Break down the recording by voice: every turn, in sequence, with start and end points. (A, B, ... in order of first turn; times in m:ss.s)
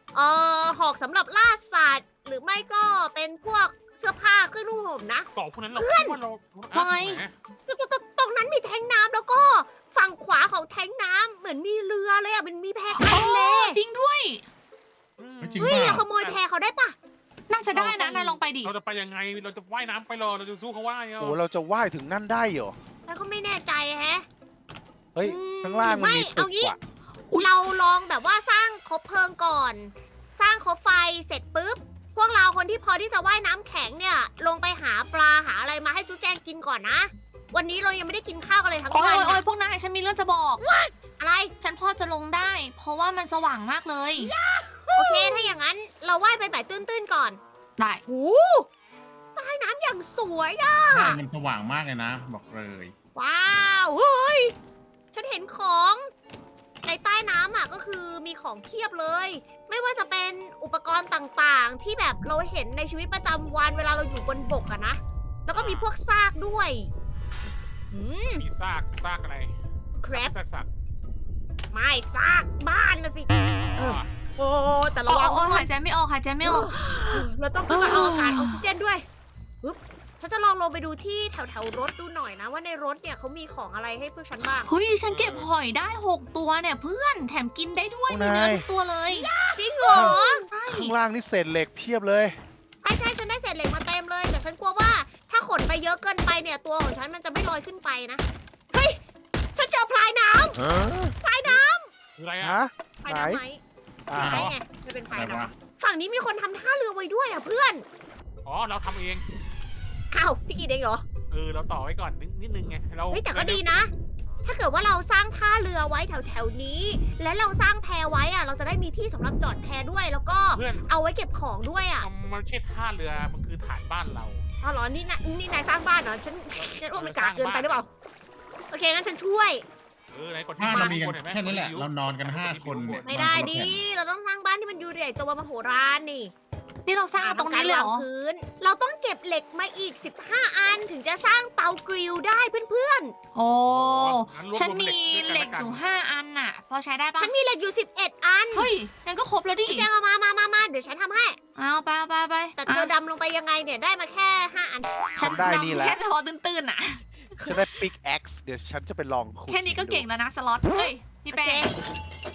0:00.1-0:06.2 A
0:05.3-0:07.4 B
0:06.7-0:07.2 C
0:07.7-0:13.8 A
0:12.9-0:14.4 C
0:15.2-0:16.4 B
0:15.4-0:16.1 D
0:15.6-0:16.9 A
0:17.5-0:18.7 C
0:17.7-0:21.4 B
0:21.2-0:22.8 E
0:23.1-0:24.2 A
0:25.2-0:26.8 E
0:25.2-0:26.8 A
0:27.3-0:27.6 C
0:27.4-0:39.4 A
0:38.9-0:40.6 C
0:40.6-0:41.5 A
0:41.6-0:44.3 C
0:44.2-0:47.4 A
0:47.8-0:48.0 C
0:48.1-0:48.7 A
0:49.4-0:51.2 A
0:50.9-0:52.9 D
0:53.2-0:54.5 A
0:55.1-0:56.1 A
0:56.8-1:06.9 A
1:05.5-1:05.9 B
1:07.9-1:08.4 A
1:08.4-1:09.6 B
1:10.0-1:10.3 A
1:10.1-1:10.7 B
1:11.7-1:15.7 A
1:13.7-1:14.1 B
1:15.1-1:18.6 C
1:16.4-1:19.1 A
1:19.6-1:24.7 A
1:24.6-1:29.3 C
1:25.1-1:25.5 B
1:28.1-1:28.7 E
1:29.1-1:30.5 A
1:29.9-1:32.4 E
1:29.9-1:30.9 C
1:32.8-1:39.0 A
1:39.6-1:40.6 A
1:40.7-1:41.1 E
1:41.2-1:41.9 A
1:42.2-1:42.6 B
1:42.4-1:43.4 E
1:43.0-1:43.6 A
1:44.1-1:44.4 E
1:44.1-1:47.8 A
1:44.2-1:44.5 D
1:44.2-1:44.6 B
1:45.1-1:45.5 D
1:48.4-1:49.2 B
1:50.1-1:51.1 A
1:51.3-1:53.9 B
1:53.1-1:53.9 A
1:54.4-2:02.1 A
2:00.5-2:00.9 B
2:02.0-2:04.4 B
2:04.6-2:07.9 A
2:06.6-2:07.9 B
2:08.7-2:09.6 A
2:10.1-2:13.1 B
2:10.6-2:13.8 D
2:13.1-2:16.3 A
2:16.9-2:18.1 C
2:17.2-2:23.2 A
2:23.4-2:27.3 C
2:23.7-2:25.8 B
2:27.2-2:28.7 A
2:28.5-2:29.9 C
2:29.6-2:31.4 A
2:31.6-2:32.9 C
2:32.6-2:35.4 A
2:35.2-2:37.0 C
2:35.2-2:36.0 E
2:37.4-2:37.8 A
2:37.4-2:40.1 E
2:39.5-2:41.7 C
2:41.3-2:41.7 A